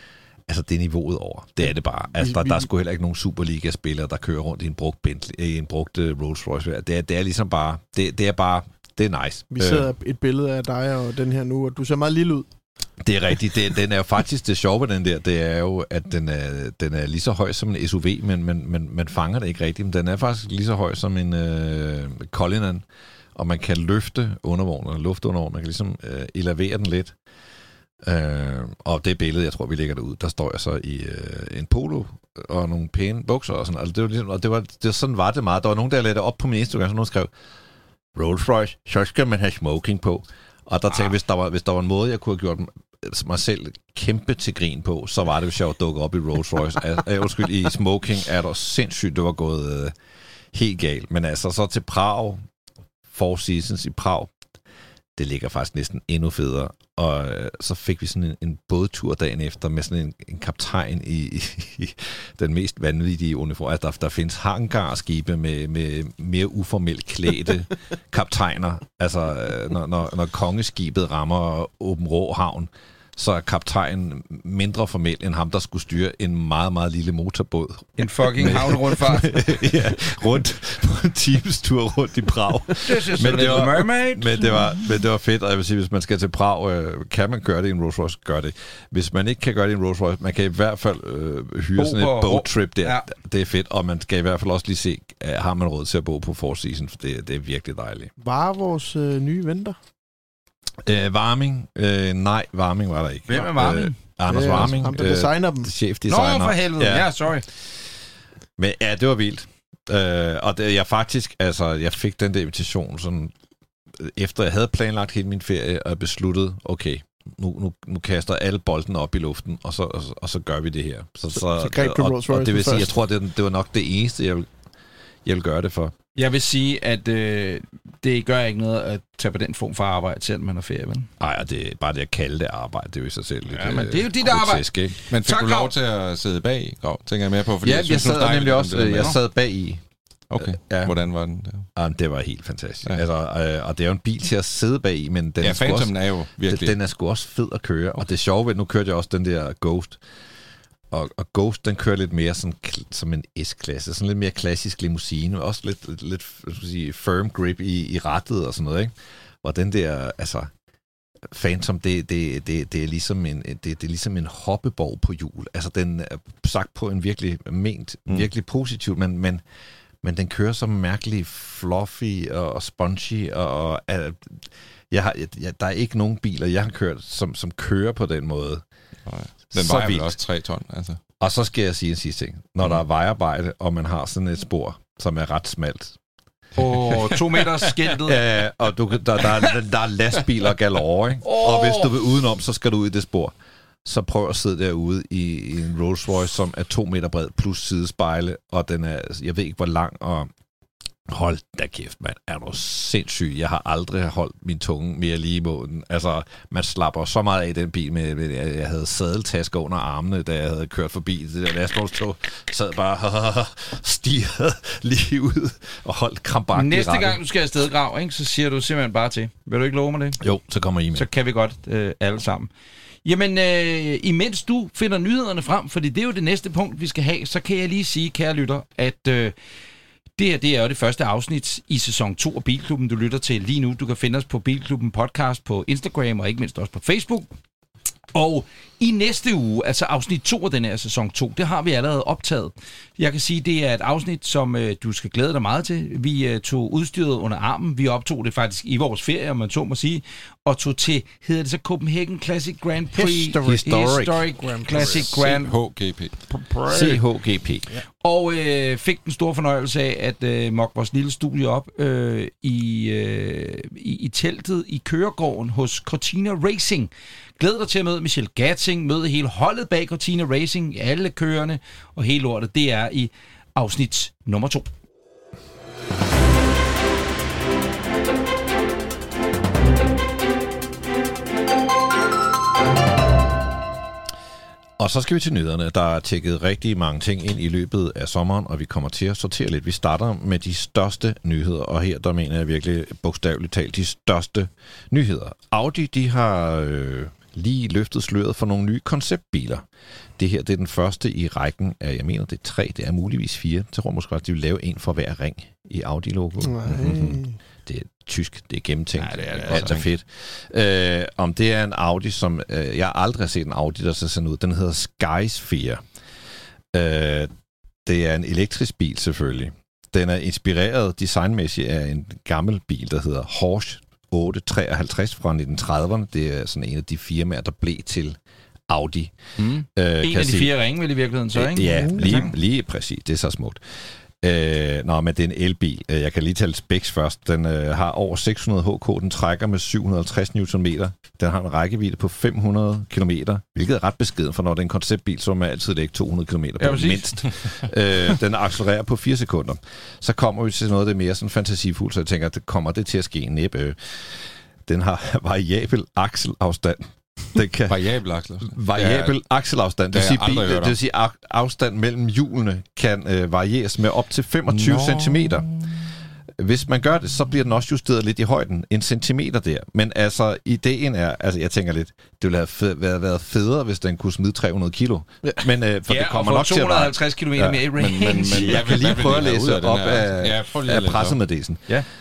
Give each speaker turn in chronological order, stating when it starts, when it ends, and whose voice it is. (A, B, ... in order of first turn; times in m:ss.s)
0:00.5-0:09.9 A
0:01.6-0:02.7 B
0:09.5-0:12.5 B
0:13.0-0:22.8 A
0:23.3-0:27.1 A
0:28.0-0:37.3 A
0:38.1-0:49.9 A
0:50.5-0:52.4 A
0:53.1-0:54.3 A
0:55.2-1:38.1 A
1:18.0-1:19.6 C
1:22.8-1:24.5 C
1:31.7-1:33.0 C
1:38.2-1:39.8 B
1:40.8-1:47.7 A
1:43.3-1:44.0 C
1:44.3-1:45.7 B
1:46.1-1:47.4 C
1:48.6-1:53.3 A
1:54.0-2:04.5 A
2:01.3-2:03.0 B
2:05.2-2:05.9 A
2:06.2-2:11.1 C
2:11.2-2:15.0 A
2:13.5-2:15.7 C
2:15.1-2:19.2 D
2:17.6-2:19.8 A
2:20.3-2:21.7 D
2:20.4-2:20.9 A
2:21.8-2:25.9 A
2:25.4-2:26.7 D
2:26.5-2:30.0 A
2:30.9-2:40.5 A
2:41.3-2:49.4 A
2:50.0-2:58.6 A
2:59.1-3:01.0 D
2:59.5-3:00.2 A
3:01.2-3:06.0 A
3:06.6-3:08.3 C
3:06.9-3:07.5 D
3:08.0-3:13.3 A
3:11.2-3:12.0 C
3:13.8-3:20.3 A
3:21.1-3:37.2 A
3:36.5-3:40.2 C
3:40.2-3:41.1 A
3:40.9-3:42.5 C
3:43.0-3:49.3 C
3:50.2-3:57.3 C
3:58.1-4:15.5 C
4:12.9-4:13.6 B
4:13.4-4:14.2 A
4:14.4-4:14.9 B
4:14.7-4:16.2 D
4:16.3-4:17.0 C
4:16.7-4:17.8 A
4:18.0-4:34.7 C
4:44.8-4:59.6 A
5:00.2-5:15.8 A
5:06.4-5:07.4 B
5:09.0-5:09.8 C
5:09.3-5:09.9 D
5:16.7-5:17.3 A
5:17.9-5:28.2 A
5:28.7-5:29.1 A
5:29.4-5:32.3 C
5:29.7-5:30.5 A
5:31.3-5:57.8 A
5:31.8-5:32.1 B
5:46.6-5:47.3 C
5:57.7-5:59.1 D
5:58.4-6:05.5 A
5:59.9-6:00.8 D
6:04.5-6:05.7 D
6:06.4-6:21.7 A
6:15.9-6:18.7 C
6:17.8-6:21.2 D